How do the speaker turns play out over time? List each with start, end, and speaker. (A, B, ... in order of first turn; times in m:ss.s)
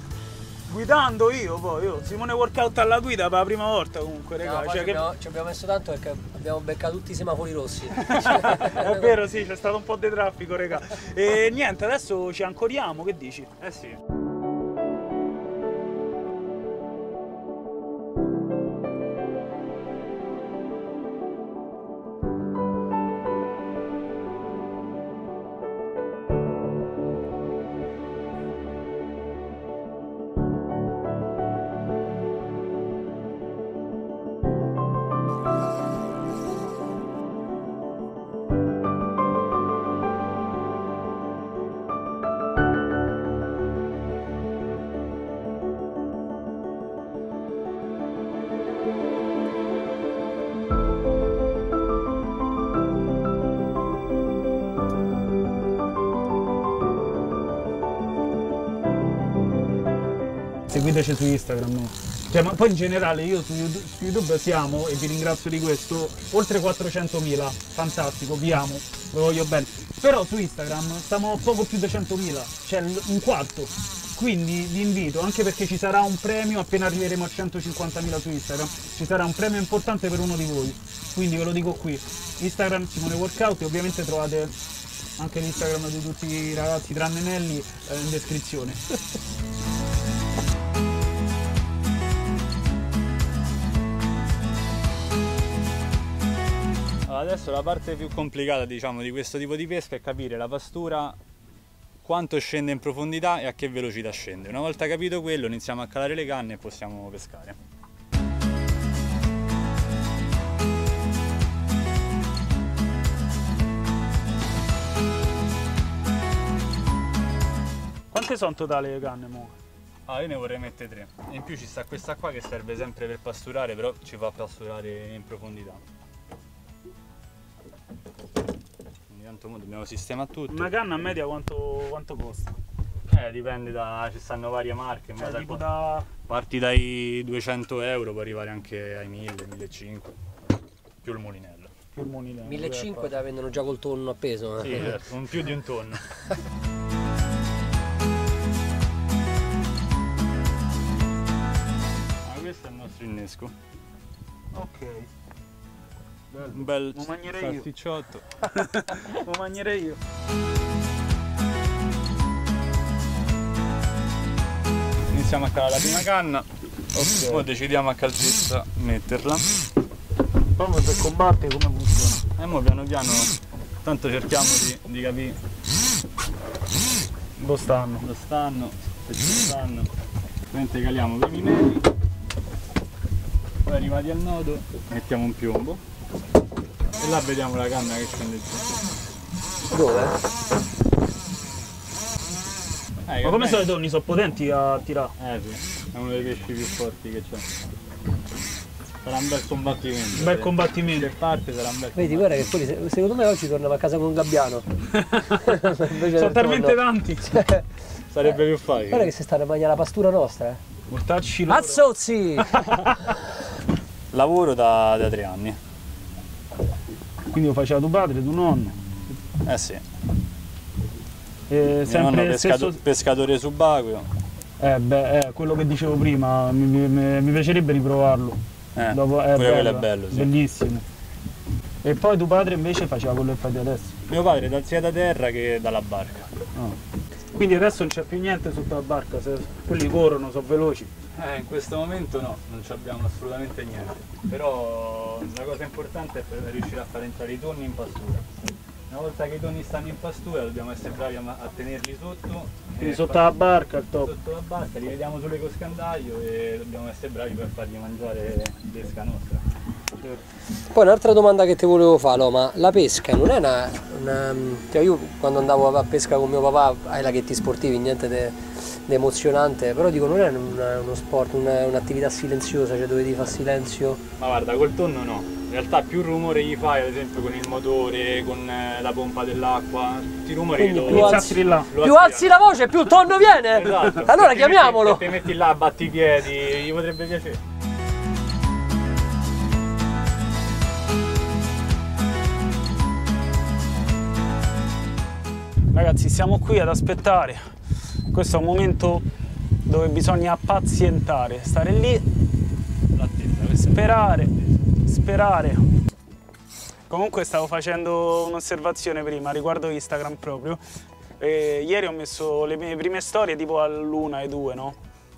0:00.7-0:05.1 A
0:04.4-0:09.2 B
0:07.9-0:13.5 A
0:13.6-0:14.0 C
1:00.7-1:24.5 A
1:25.2-1:28.8 A
1:37.1-1:41.2 C
1:42.0-1:47.6 C
1:58.1-1:59.5 A
2:00.1-2:05.8 C
2:09.1-2:10.8 C
2:10.5-2:12.6 A
2:13.1-2:20.2 C
2:15.2-2:16.1 A
2:21.0-2:21.7 C
2:22.0-2:23.1 A
2:22.4-2:24.9 B
2:24.6-2:26.0 C
2:32.2-2:33.6 C
2:34.5-2:35.1 A
2:36.3-2:37.7 A
2:36.5-2:38.3 C
2:38.5-2:40.0 A
2:45.1-2:46.5 C
2:47.0-2:47.4 A
2:47.2-2:49.5 C
2:50.6-2:52.2 A
2:52.4-2:53.3 C
2:53.8-2:55.4 C
2:57.4-2:58.0 A
2:58.0-2:59.9 C
3:00.5-3:01.9 C
3:03.6-3:05.8 C
3:07.0-3:08.8 C
3:09.7-3:10.2 B
3:13.1-3:13.7 C
3:13.2-3:15.1 A
3:15.2-3:17.5 C
3:19.0-3:22.5 C
3:20.2-3:21.1 A
3:22.0-3:24.6 B
3:25.0-3:25.4 A
3:25.4-3:26.8 B
3:26.0-3:27.4 A
3:27.3-3:27.6 B
3:28.1-3:29.1 C
3:28.9-3:30.6 B
3:30.9-3:31.8 A
3:31.5-3:32.6 B
3:32.4-3:32.9 A
3:34.1-3:35.6 C
3:37.3-3:38.8 A
3:39.4-3:39.8 C
3:41.5-3:42.8 A
3:41.8-3:44.1 C
3:44.6-3:48.4 A
3:48.8-3:50.3 C
3:48.9-3:50.8 A
3:51.8-3:53.9 A
3:54.1-3:56.3 C
3:57.3-4:00.9 A
4:01.2-4:08.3 C
4:08.9-4:13.3 C
4:12.8-4:14.1 A
4:14.0-4:19.4 C
4:20.7-4:34.0 B
4:34.2-4:42.4 C
4:40.6-4:45.2 B
4:40.9-4:41.7 A
4:43.5-4:47.4 C
4:55.7-4:57.4 A
4:58.1-4:59.0 A
4:59.7-5:02.0 A
5:02.9-5:04.6 C
5:03.7-5:05.6 A
5:06.9-5:10.6 A
5:11.2-5:14.8 A